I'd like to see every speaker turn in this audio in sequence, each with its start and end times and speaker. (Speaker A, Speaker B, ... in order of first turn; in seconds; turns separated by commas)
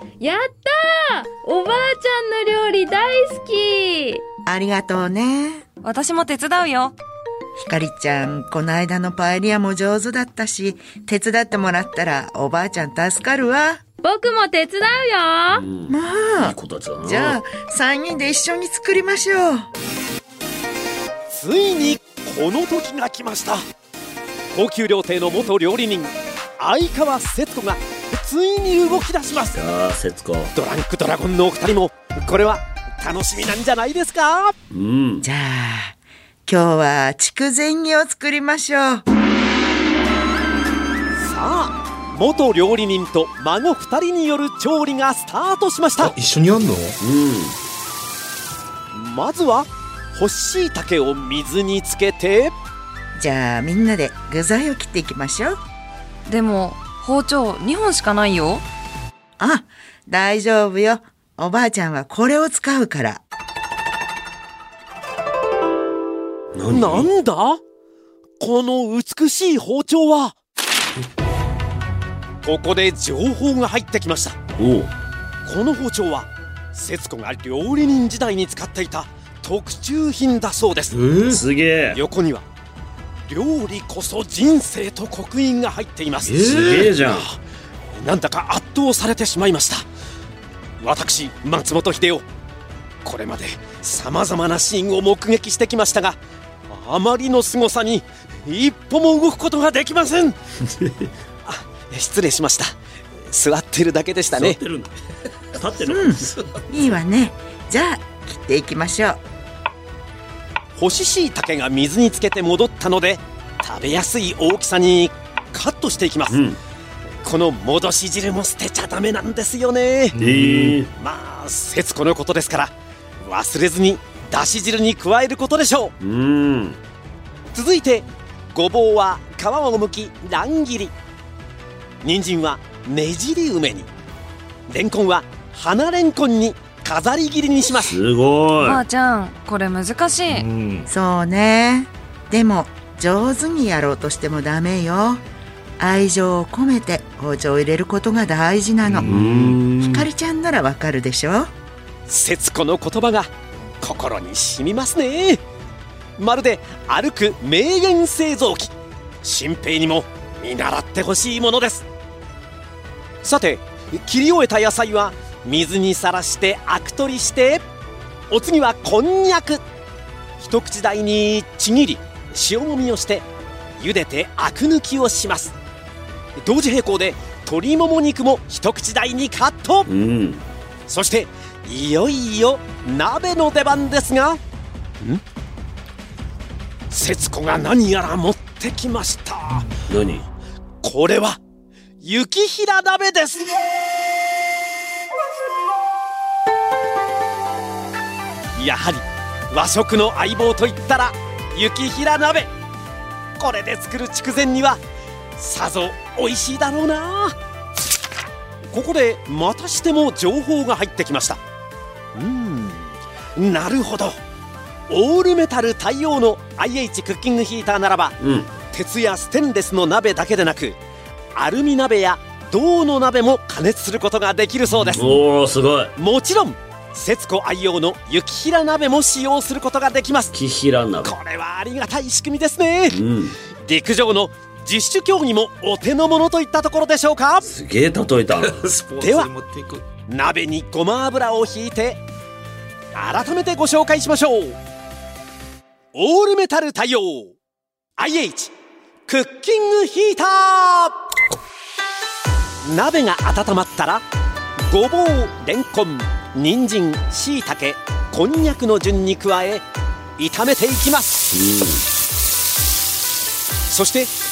Speaker A: 0.2-4.2, Speaker B: 4.5-5.6, Speaker C: 5.8-7.0, Speaker B: 7.6-13.8, Speaker A: 14.0-15.7, Speaker D: 15.5-17.4, Speaker B: 15.9-19.7, Speaker E: 21.3-23.7, Speaker E: 24.5-29.6, Speaker D: 29.5-30.5, Speaker E: 30.6-34.6, Speaker D: 34.7-35.2, Speaker B: 35.2-39.0, Speaker E: 41.2-46.1, Speaker F: 46.0-47.0, Speaker D: 47.0-47.6, Speaker E: 48.9-52.5, Speaker B: 53.2-55.6, Speaker C: 56.3-58.6, Speaker B: 59.4-63.2, Speaker D: 66.6-67.1, Speaker E: 66.7-67.6, Speaker E: 68.4-70.4, Speaker E: 72.4-74.4, Speaker D: 74.6-74.9, Speaker E: 75.5-81.0, Speaker F: 80.9-81.4, Speaker D: 81.3-82.0, Speaker E: 81.9-82.5, Speaker E: 83.3-87.4, Speaker F: 86.2-87.0, Speaker D: 86.4-87.3, Speaker E: 87.9-89.9, Speaker E: 90.8-92.3, Speaker E: 93.0-96.2, Speaker E: 96.7-100.4, Speaker E: 101.5-104.6, Speaker D: 104.3-104.9, Speaker D: 105.5-106.5, Speaker B: 105.9-109.2, Speaker E: 110.8-116.4, Speaker D: 116.3-116.6, Speaker E: 117.2-120.2, Speaker F: 120.2-120.8, Speaker D: 120.2-120.9, Speaker E: 121.0-125.9, Speaker D: 126.0-126.8, Speaker E: 127.5-130.9, Speaker E: 132.0-133.9, Speaker E: 134.7-138.0, Speaker D: 137.8-138.8, Speaker C: 138.6-140.5, Speaker F: 140.3-140.9, Speaker B: 140.9-145.2, Speaker B: 145.8-149.1, Speaker F: 148.8-149.6, Speaker D: 149.1-150.1, Speaker B: 149.8-151.5, Speaker E: 152.1-155.4, Speaker E: 156.2-161.9, Speaker E: 163.2-167.6, Speaker E: 168.3-169.6, Speaker E: 170.4-173.3, Speaker E: 173.8-175.6, Speaker E: 176.4-179.9, Speaker D: 179.9-180.4, Speaker E: 180.9-184.4, Speaker E: 186.9-189.7, Speaker D: 189.9-190.3, Speaker E: 190.8-191.4, Speaker E: 192.0-193.6, Speaker E: 198.6-202.5, Speaker E: 203.4-204.8, Speaker E: 205.4-207.4, Speaker E: 208.7-211.4, Speaker E: 212.1-214.2, Speaker E: 214.9-218.2, Speaker D: 218.2-218.5, Speaker E: 218.7-220.8, Speaker E: 221.3-225.1, Speaker F: 224.7-225.2, Speaker D: 225.0-225.9, Speaker E: 226.0-230.3, Speaker D: 230.3-231.1, Speaker E: 231.0-233.0, Speaker D: 232.9-233.4, Speaker E: 233.6-237.5, Speaker D: 237.5-238.7, Speaker F: 238.3-239.9, Speaker E: 239.0-239.3, Speaker E: 240.1-242.0, Speaker E: 242.9-244.6, Speaker E: 245.9-247.3, Speaker E: 248.0-248.5, Speaker E: 249.1-251.0, Speaker E: 252.6-254.0, Speaker E: 254.6-259.6, Speaker E: 260.2-261.3, Speaker D: 261.3-261.9, Speaker E: 263.7-264.1